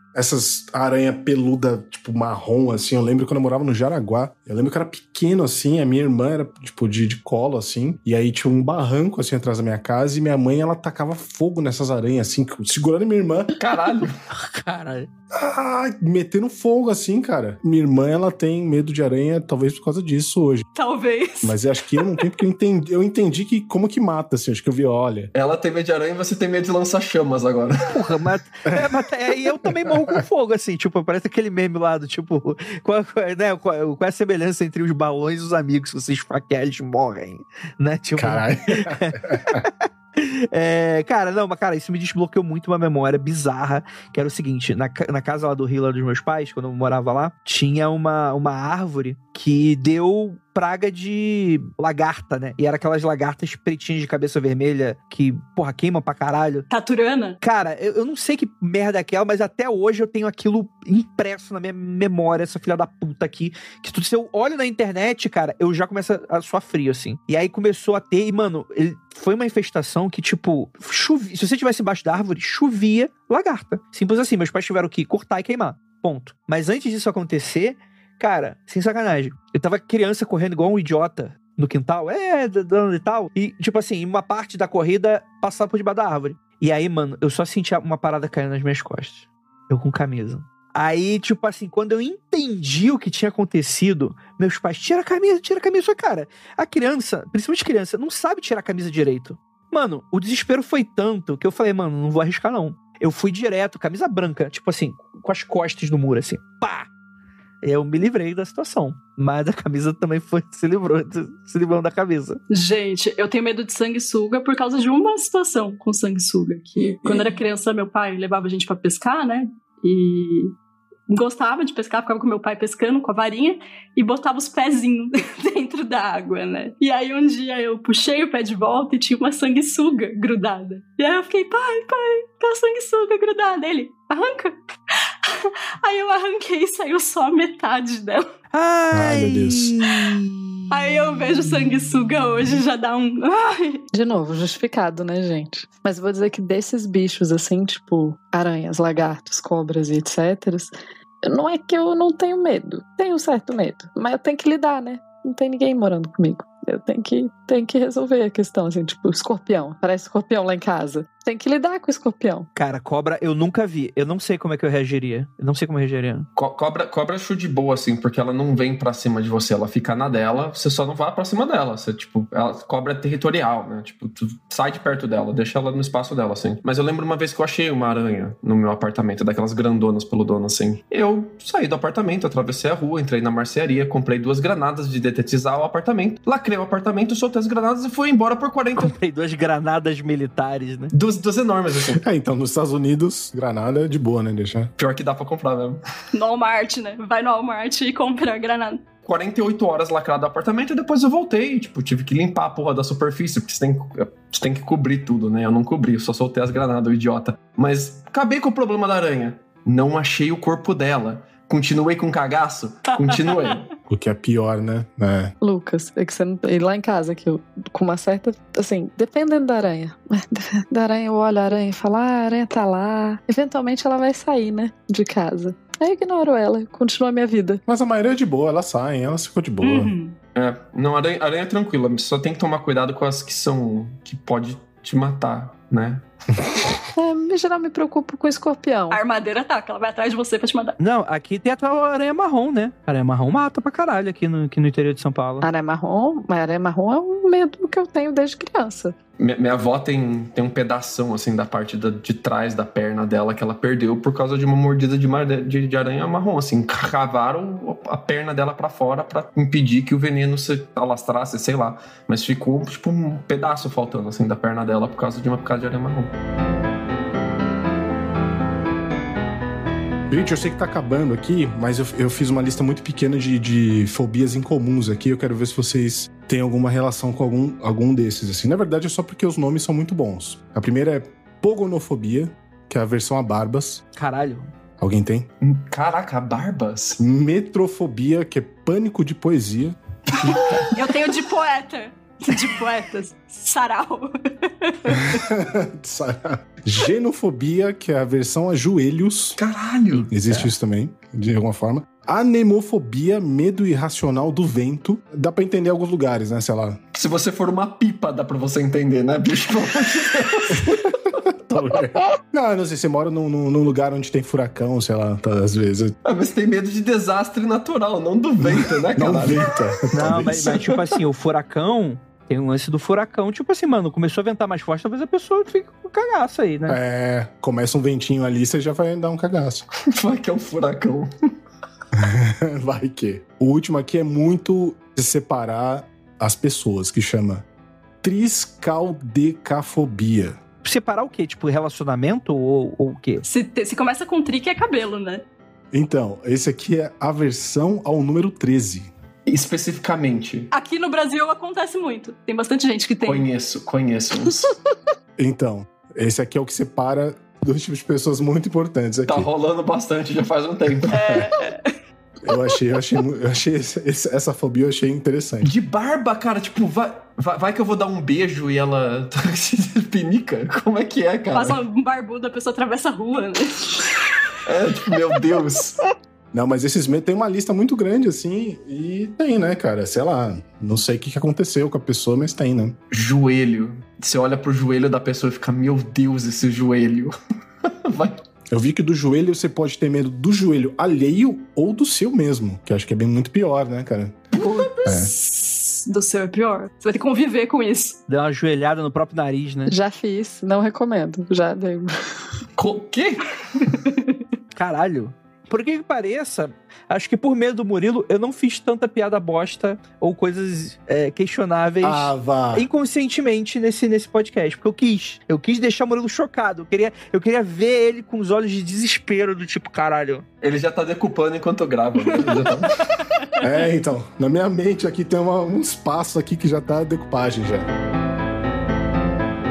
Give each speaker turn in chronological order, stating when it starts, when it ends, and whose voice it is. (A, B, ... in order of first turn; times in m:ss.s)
0:00.2-0:13.5 A
0:13.6-0:14.2 B
0:14.3-0:15.1 C
0:15.3-0:20.7 A
0:20.8-0:22.3 D
0:21.4-0:25.3 A
0:25.3-0:27.8 B
0:27.9-0:56.7 C
0:29.7-0:30.2 A
0:38.2-0:39.7 A
0:56.7-0:57.4 D
0:57.4-1:46.9 C
1:47.6-1:52.4 C
1:52.5-2:00.6 D
2:01.1-2:18.3 D
2:18.5-2:20.5 C
2:18.9-2:19.9 A
2:20.7-2:23.8 D
2:23.9-2:42.5 E
2:42.6-2:46.3 C
2:46.4-3:08.9 B
3:08.8-3:10.9 C
3:10.9-3:12.0 B
3:11.9-3:14.7 A
3:14.8-3:15.8 B
3:16.1-3:18.9 D
3:19.0-3:33.7 B
3:33.1-3:33.6 D
3:33.9-3:35.3 A
3:35.4-3:47.6 E
3:47.7-3:49.9 A
3:49.6-3:50.2 D
3:50.4-3:56.0 B
3:56.9-3:59.0 E
3:58.9-4:00.8 D
4:00.8-4:05.5 C
4:05.4-4:09.0 E
4:09.2-4:26.1 B
4:30.1-4:43.8 A
4:44.0-4:44.5 C
4:44.8-4:45.3 A
4:45.4-4:47.0 B
4:47.0-4:49.8 A
4:50.2-4:50.6 B
4:50.2-4:55.3 D
4:54.9-4:59.4 A
4:59.4-5:00.5 B
5:00.1-5:06.8 A
5:06.9-5:11.0 B
5:11.5-5:16.0 A
5:16.0-5:19.5 B
5:18.4-5:20.6 A
5:19.9-5:26.8 C
5:20.0-5:20.9 B
5:26.7-5:29.7 A
5:29.9-5:31.1 B
5:32.0-5:37.5 A
5:38.0-5:40.4 A
5:40.6-5:43.2 C
5:43.2-5:45.2 D
5:45.7-5:48.9 A
5:49.3-5:50.5 B
5:50.5-5:53.2 D
5:53.0-5:54.5 B
5:55.2-5:59.3 A
5:59.1-6:01.2 B
6:00.9-6:01.3 A
6:01.0-6:01.7 D
6:02.2-6:05.5 A
6:05.4-6:11.6 B
6:11.3-6:14.0 D
6:14.5-6:15.8 B
6:16.3-6:22.8 A
6:22.9-6:27.1 B
6:27.6-6:28.2 B
6:28.5-6:34.3 A
6:34.4-6:38.0 D
6:34.4-6:34.6 B
6:34.8-6:35.1 A
6:38.1-6:39.7 C
6:39.7-6:42.2 E
6:42.6-6:43.7 B
6:43.9-6:44.2 D
6:44.6-7:00.2 C
6:51.8-6:52.7 A
7:00.4-7:02.8 B
7:03.4-7:07.7 A